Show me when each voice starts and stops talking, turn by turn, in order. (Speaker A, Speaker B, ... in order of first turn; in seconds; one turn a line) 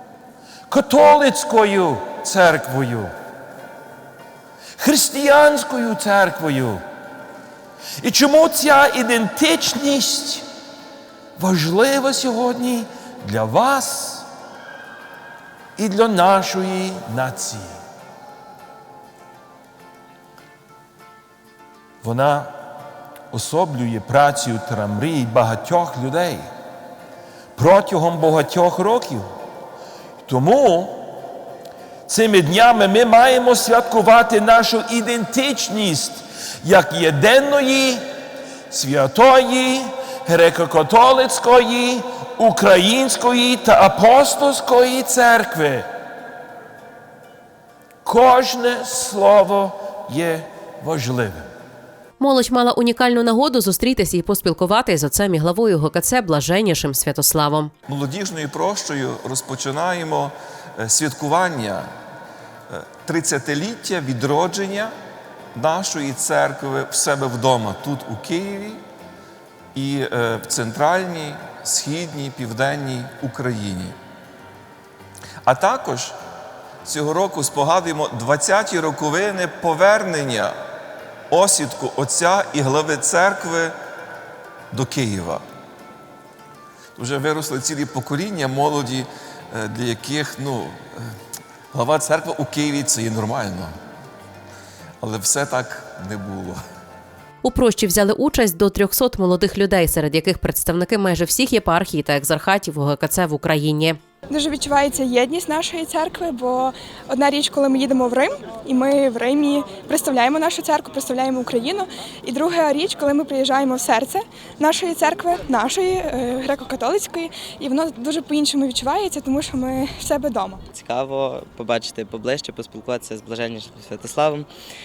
Speaker A: 0.7-3.1
Speaker A: 4.8-6.8
Speaker A: 8.0-10.4
Speaker A: 11.4-14.2
Speaker A: 15.8-17.8
Speaker A: 22.0-22.5
Speaker A: 23.3-26.5
Speaker A: 27.5-29.3
Speaker A: 30.2-31.1
Speaker A: 32.1-38.0
Speaker A: 38.7-45.9
Speaker A: 48.0-51.5
Speaker B: 52.2-57.7
Speaker C: 57.9-61.9
Speaker C: 62.7-64.9
Speaker C: 65.5-68.8
Speaker C: 69.7-74.0
Speaker C: 75.4-76.2
Speaker C: 76.8-80.5
Speaker C: 81.3-83.8
Speaker C: 84.7-85.4
Speaker C: 87.0-91.1
Speaker C: 91.7-93.7
Speaker C: 95.0-96.6
Speaker B: 97.4-104.0
Speaker D: 104.3-120.6
Speaker E: 120.7-124.5